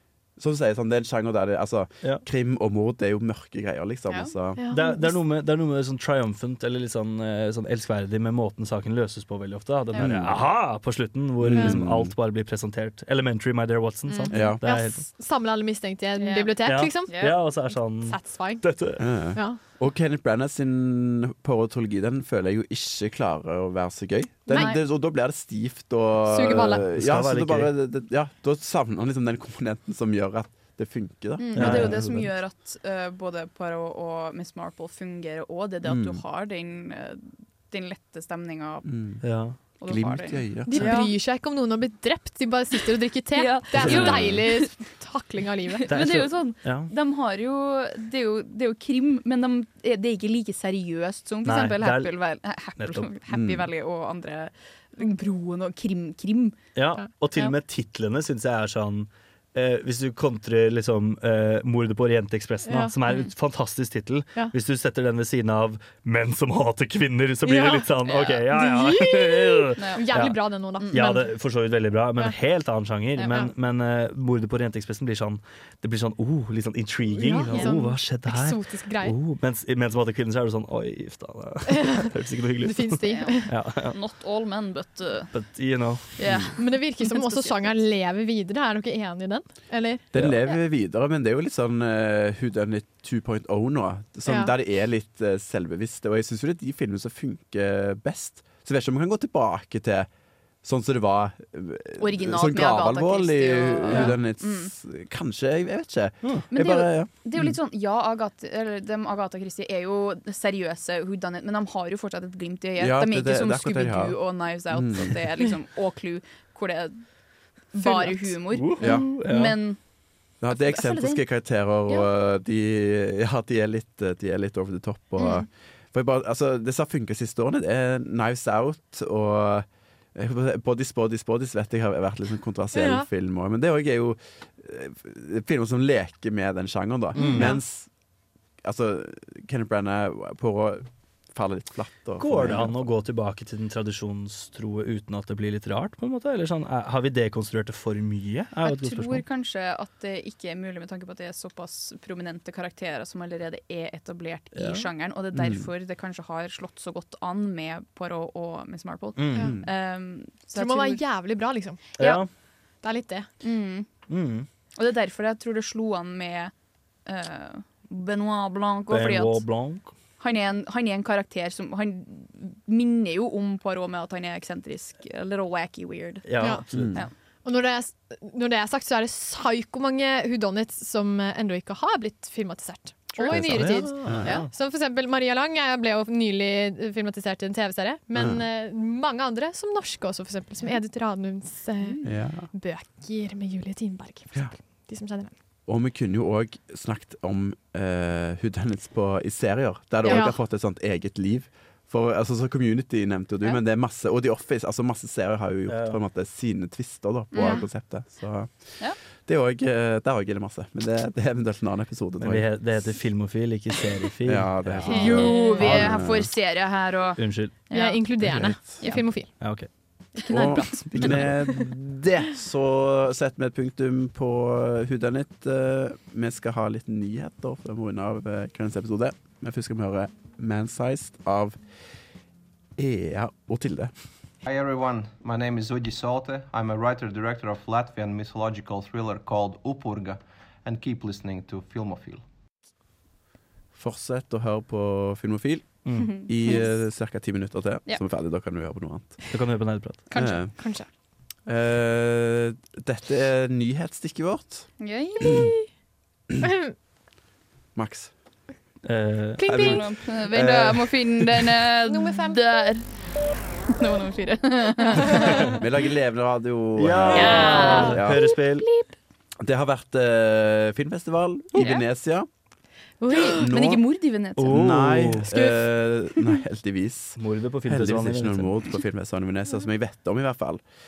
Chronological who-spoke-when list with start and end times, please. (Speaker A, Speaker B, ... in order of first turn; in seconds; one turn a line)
Speaker A: 0.4-4.6
Speaker B: 4.1-4.3
Speaker C: 4.5-5.2
Speaker D: 4.7-15.0
Speaker B: 9.9-10.4
Speaker A: 10.0-10.4
Speaker A: 11.4-12.1
Speaker B: 14.1-14.3
Speaker A: 14.3-14.6
Speaker C: 14.6-19.6
Speaker B: 16.1-17.4
Speaker D: 16.6-19.0
Speaker A: 19.0-32.3
Speaker C: 24.5-24.7
Speaker B: 24.5-24.8
Speaker C: 26.2-26.9
Speaker D: 26.9-27.7
Speaker B: 31.4-38.9
Speaker D: 31.5-32.0
Speaker A: 35.8-36.2
Speaker A: 38.8-41.0
Speaker D: 39.2-39.6
Speaker B: 39.8-41.1
Speaker C: 40.7-45.8
Speaker B: 43.3-44.7
Speaker A: 43.8-44.4
Speaker B: 45.9-56.6
Speaker D: 45.9-46.9
Speaker D: 51.4-52.1
Speaker D: 52.8-53.1
Speaker A: 53.3-53.7
Speaker D: 56.8-70.4
Speaker C: 62.7-63.0
Speaker C: 67.4-67.9
Speaker B: 68.0-68.4
Speaker C: 68.5-71.3
Speaker B: 69.8-70.0
Speaker B: 70.8-71.2
Speaker D: 70.9-84.0
Speaker C: 77.1-79.2
Speaker C: 81.8-82.1
Speaker C: 82.6-83.5
Speaker B: 83.0-85.4
Speaker D: 85.3-86.5
Speaker B: 86.2-87.7
Speaker C: 86.5-90.0
Speaker A: 90.1-100.1
Speaker C: 94.2-94.5
Speaker A: 100.6-107.5
Speaker B: 102.0-104.7
Speaker B: 106.5-117.0
Speaker A: 112.8-115.2
Speaker B: 117.7-119.8
Speaker C: 117.8-118.9
Speaker D: 118.5-119.5
Speaker A: 118.8-119.1
Speaker A: 120.4-137.9
Speaker B: 120.5-121.2
Speaker B: 125.2-125.5
Speaker C: 132.7-133.1
Speaker C: 137.2-137.6
Speaker D: 137.2-137.5
Speaker A: 138.6-142.9
Speaker D: 142.2-149.2
Speaker B: 148.6-161.0
Speaker D: 154.5-154.9
Speaker A: 155.3-155.7
Speaker D: 159.2-159.6
Speaker A: 159.3-159.7
Speaker C: 160.5-161.8
Speaker D: 162.0-162.3
Speaker B: 162.0-162.2
Speaker C: 162.8-163.3
Speaker B: 163.4-163.9
Speaker D: 164.1-164.5
Speaker B: 164.8-166.5
Speaker B: 167.1-169.4
Speaker D: 168.9-169.9
Speaker B: 170.2-177.1
Speaker D: 176.2-177.0
Speaker A: 176.7-177.0
Speaker C: 177.4-195.3
Speaker B: 183.2-184.3
Speaker D: 183.3-184.5
Speaker A: 183.4-184.4
Speaker A: 188.1-188.4
Speaker B: 191.8-192.1
Speaker A: 192.0-192.5
Speaker A: 195.7-212.9
Speaker C: 200.0-200.4
Speaker D: 205.7-206.0
Speaker B: 207.3-207.7
Speaker D: 212.2-216.0
Speaker A: 214.2-216.3
Speaker B: 214.8-218.0
Speaker C: 214.8-215.7
Speaker D: 217.2-217.5
Speaker C: 217.7-219.3
Speaker A: 218.2-218.8
Speaker D: 219.4-219.7
Speaker C: 220.2-221.7
Speaker B: 220.2-220.8
Speaker A: 220.3-231.6
Speaker D: 220.9-221.3
Speaker A: 232.8-233.9
Speaker E: 234.4-242.2
Speaker A: 243.7-249.2
Speaker D: 245.8-246.2
Speaker B: 245.9-246.7
Speaker D: 249.3-250.0
Speaker B: 250.1-250.4
Speaker A: 250.1-250.7
Speaker C: 250.6-250.8
Speaker A: 251.4-255.5
Speaker B: 254.8-255.5
Speaker C: 255.2-255.6
Speaker C: 256.4-256.7
Speaker A: 257.7-258.1
Speaker D: 258.8-259.8
Speaker C: 259.4-259.8
Speaker A: 259.4-261.4
Speaker B: 259.5-263.1
Speaker C: 261.9-262.4
Speaker B: 263.8-265.6
Speaker C: 264.8-265.3
Speaker A: 265.6-268.2
Speaker D: 266.8-268.7
Speaker B: 267.1-268.0
Speaker C: 267.2-268.9
Speaker A: 269.4-272.3
Speaker B: 271.6-271.8
Speaker C: 273.0-273.5
Speaker B: 273.1-274.6
Speaker A: 273.4-280.6
Speaker D: 274.4-275.3
Speaker C: 275.3-276.3
Speaker D: 277.2-278.5